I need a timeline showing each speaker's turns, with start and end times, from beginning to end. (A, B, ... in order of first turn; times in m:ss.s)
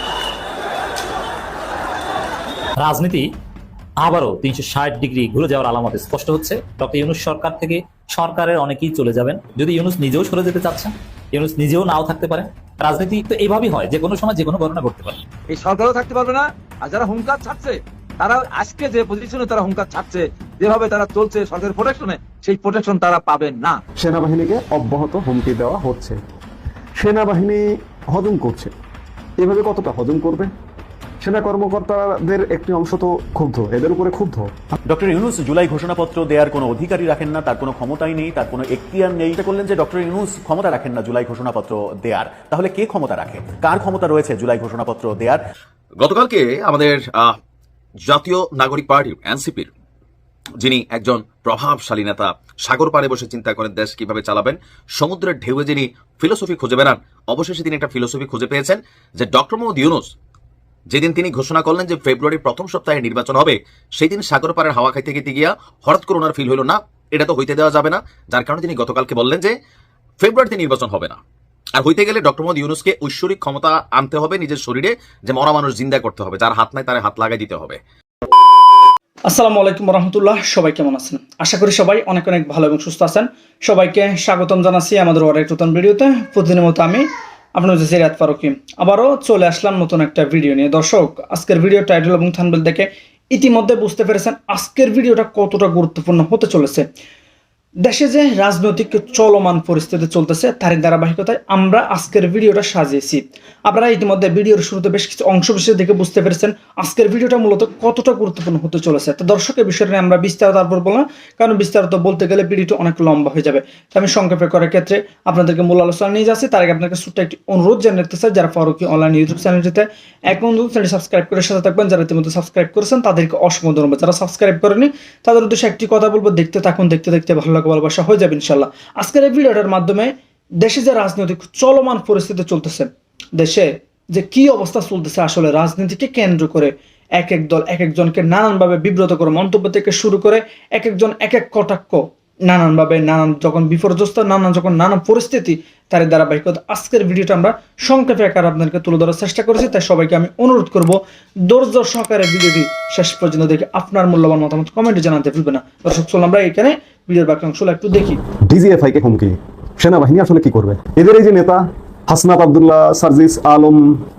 0:02.8-0:03.3 A
0:04.0-0:15.2 A
0:15.5-0:23.8 B
0:24.0-0:26.2 C
0:27.0-0:28.7 C
0:29.4-0:30.5 C
0:31.2-0:34.5 C
0:34.9-0:45.4 D
0:46.0-0:47.4 E
0:48.0-0:49.7 E
0:50.6-1:00.1 E
1:00.9-1:09.6 E
1:10.2-1:11.2 E
1:11.8-1:17.8 E
1:19.3-1:27.0 F
1:27.6-1:36.9 F
1:37.8-2:38.2 F
2:38.5-2:43.9 C